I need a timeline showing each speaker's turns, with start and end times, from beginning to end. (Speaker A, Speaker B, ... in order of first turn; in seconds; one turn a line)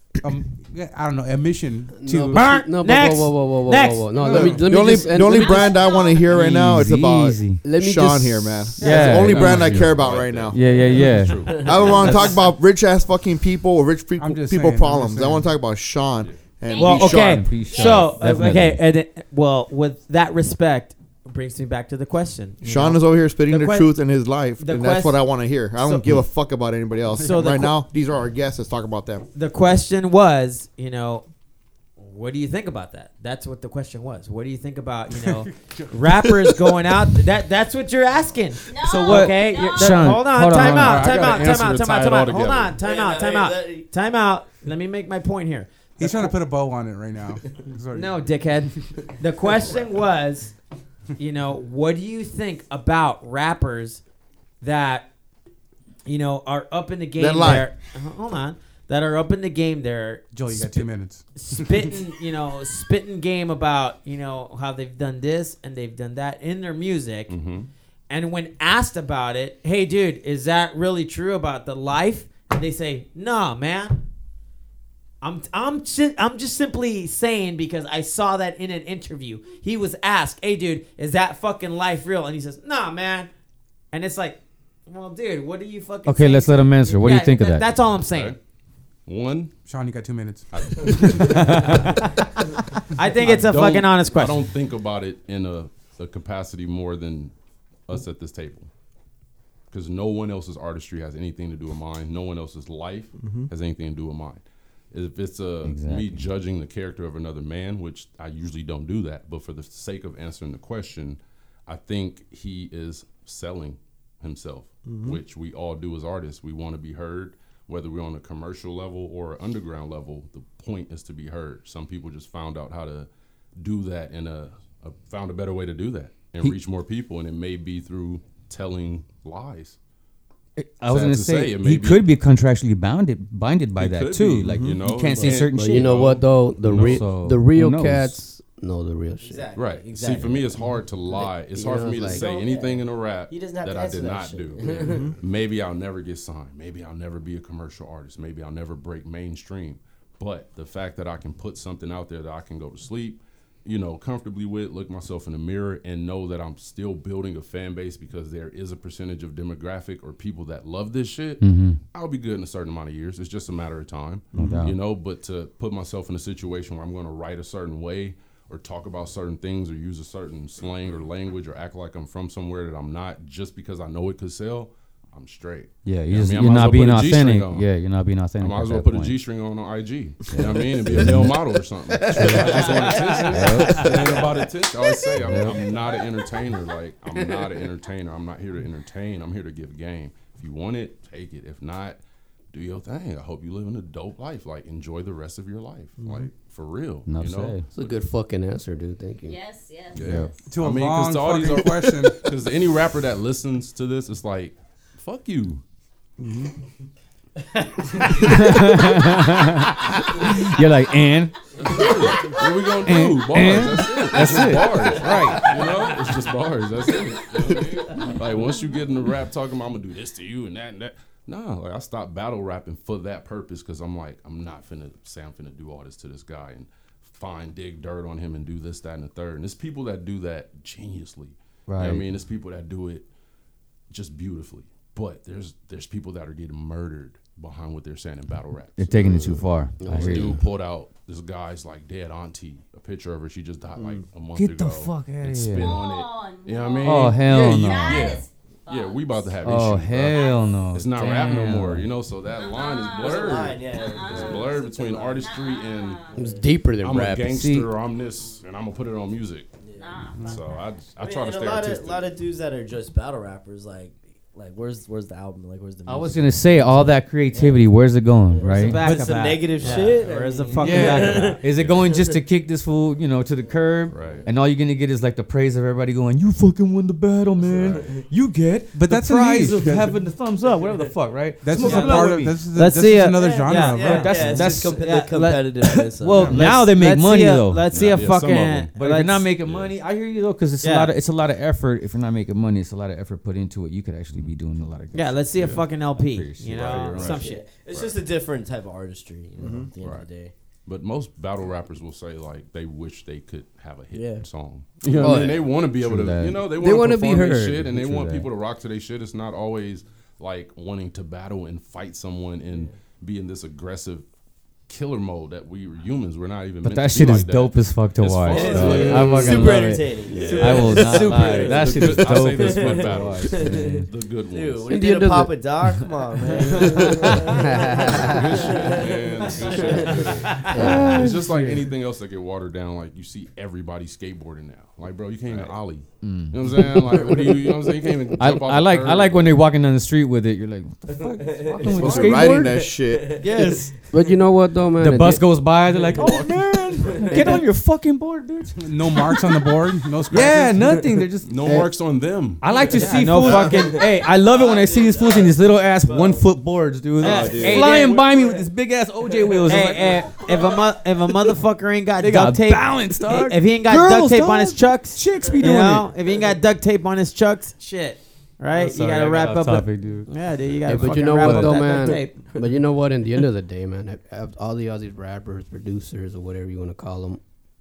Speaker A: 0.2-2.6
Speaker B: 2.0-5.8
Speaker C: 2.3-4.1
Speaker A: 4.2-4.7
Speaker D: 4.3-10.6
Speaker E: 5.3-6.3
Speaker F: 6.3-7.6
Speaker B: 7.6-8.8
Speaker F: 8.8-12.4
Speaker C: 8.8-9.2
Speaker G: 8.8-12.3
Speaker D: 11.5-17.6
Speaker C: 12.0-12.3
Speaker A: 14.2-15.5
Speaker E: 16.6-18.2
Speaker C: 16.7-23.9
Speaker F: 17.1-18.8
Speaker D: 22.6-29.3
Speaker C: 24.6-25.2
Speaker C: 25.8-26.2
Speaker C: 27.2-27.7
Speaker C: 29.3-31.3
Speaker C: 32.0-46.4
Speaker A: 35.1-35.9
Speaker E: 38.7-40.0
Speaker F: 38.9-41.1
Speaker A: 39.0-39.3
Speaker G: 40.6-42.8
Speaker H: 42.8-43.9
Speaker A: 46.0-48.2
Speaker C: 47.9-50.5
Speaker C: 51.2-54.0
Speaker C: 54.6-55.1
Speaker C: 56.1-67.4
Speaker D: 57.2-57.7
Speaker A: 60.3-62.0
Speaker G: 67.3-67.7
Speaker C: 68.1-74.0
Speaker C: 75.2-83.3
Speaker C: 83.9-88.4
Speaker F: 86.1-87.7
Speaker G: 88.0-88.4
Speaker G: 89.1-89.5
Speaker A: 89.7-90.8
Speaker G: 90.5-91.7
Speaker F: 90.9-92.0
Speaker C: 91.7-92.1
Speaker C: 92.9-94.4
Speaker G: 93.2-97.3
Speaker G: 97.9-98.7
Speaker G: 99.7-129.8
Speaker D: 103.2-103.5
Speaker F: 105.6-106.3
Speaker D: 114.8-115.2
Speaker F: 130.6-138.2
Speaker G: 130.9-132.1
Speaker G: 133.8-137.1
Speaker D: 134.4-134.8
Speaker B: 135.3-139.5
Speaker H: 139.2-140.7
Speaker G: 139.6-177.7
Speaker B: 141.2-142.2
Speaker H: 142.0-145.1
Speaker D: 144.9-145.1
Speaker F: 161.4-161.8
Speaker D: 164.3-164.6
Speaker F: 164.3-164.8
Speaker F: 175.9-179.2
Speaker G: 178.4-192.0
Speaker F: 180.3-181.4
Speaker F: 182.0-182.4
Speaker F: 183.3-184.2
Speaker F: 185.2-185.6
Speaker G: 192.5-198.0
Speaker D: 196.0-196.3
Speaker F: 197.1-197.7
Speaker B: 197.7-199.4
Speaker E: 199.2-200.1
Speaker G: 199.9-205.6
Speaker F: 200.0-200.3
Speaker A: 200.5-202.3
Speaker D: 206.2-206.5
Speaker F: 208.1-211.4
Speaker G: 211.6-233.1
Speaker F: 212.8-215.7
Speaker F: 231.7-232.1
Speaker G: 233.9-256.1
Speaker F: 238.8-240.3
Speaker B: 239.8-240.4
Speaker D: 243.8-244.0
Speaker F: 244.3-245.9
Speaker E: 245.6-249.4
Speaker F: 246.8-248.2
Speaker F: 249.4-251.9
Speaker E: 250.1-250.6
Speaker E: 252.3-256.2
Speaker H: 253.0-255.4
Speaker H: 256.1-256.4
Speaker B: 256.2-257.4
Speaker G: 256.8-259.5
Speaker F: 257.3-257.7
Speaker E: 259.8-260.7
Speaker G: 260.2-262.1
Speaker H: 261.0-267.7
Speaker F: 265.9-268.8
Speaker H: 268.3-272.2
Speaker C: 268.4-271.4
Speaker G: 269.6-269.9
Speaker F: 270.6-282.4
Speaker G: 271.4-271.9
Speaker H: 273.4-274.3
Speaker G: 273.9-274.3
Speaker G: 277.4-278.0
Speaker H: 277.6-278.0
Speaker A: 278.7-279.9
Speaker A: 281.4-284.4
Speaker C: 281.6-285.3
Speaker H: 283.4-286.4
Speaker F: 283.8-288.0
Speaker G: 286.2-286.5
Speaker C: 286.3-289.3
Speaker G: 287.7-288.7
Speaker F: 288.8-297.2
Speaker G: 289.4-289.8
Speaker C: 290.6-290.9
Speaker C: 294.9-297.4
Speaker G: 295.4-295.6
Speaker G: 296.5-298.0
Speaker H: 297.1-300.3
Speaker D: 299.4-299.7
Speaker G: 299.8-300.1
Speaker G: 300.7-314.1
Speaker H: 303.9-304.2
Speaker B: 304.9-305.5
Speaker F: 305.0-306.5
Speaker B: 306.5-307.7
Speaker F: 307.6-308.3
Speaker G: 314.7-324.7
Speaker F: 316.6-323.9
Speaker H: 318.3-330.8
Speaker B: 324.7-325.9
Speaker B: 326.6-328.4
Speaker G: 327.9-339.4
Speaker F: 330.4-331.7
Speaker B: 330.5-331.0
Speaker F: 336.0-337.5
Speaker F: 338.2-342.7
Speaker H: 340.9-344.2
Speaker D: 341.7-343.2
Speaker F: 343.2-343.7
Speaker B: 343.9-345.3
Speaker F: 344.8-349.4
Speaker H: 347.0-347.4
Speaker A: 348.6-350.7
Speaker F: 350.1-351.8
Speaker G: 351.2-352.4
Speaker F: 352.4-360.3
Speaker H: 352.5-356.3
Speaker C: 352.8-353.8
Speaker C: 357.0-358.1
Speaker D: 357.0-357.8
Speaker H: 357.0-358.5
Speaker H: 359.2-360.0
Speaker C: 359.5-372.1
Speaker F: 362.0-365.9
Speaker F: 368.5-370.1
Speaker B: 370.7-377.2
Speaker F: 370.7-371.6
Speaker H: 371.6-372.4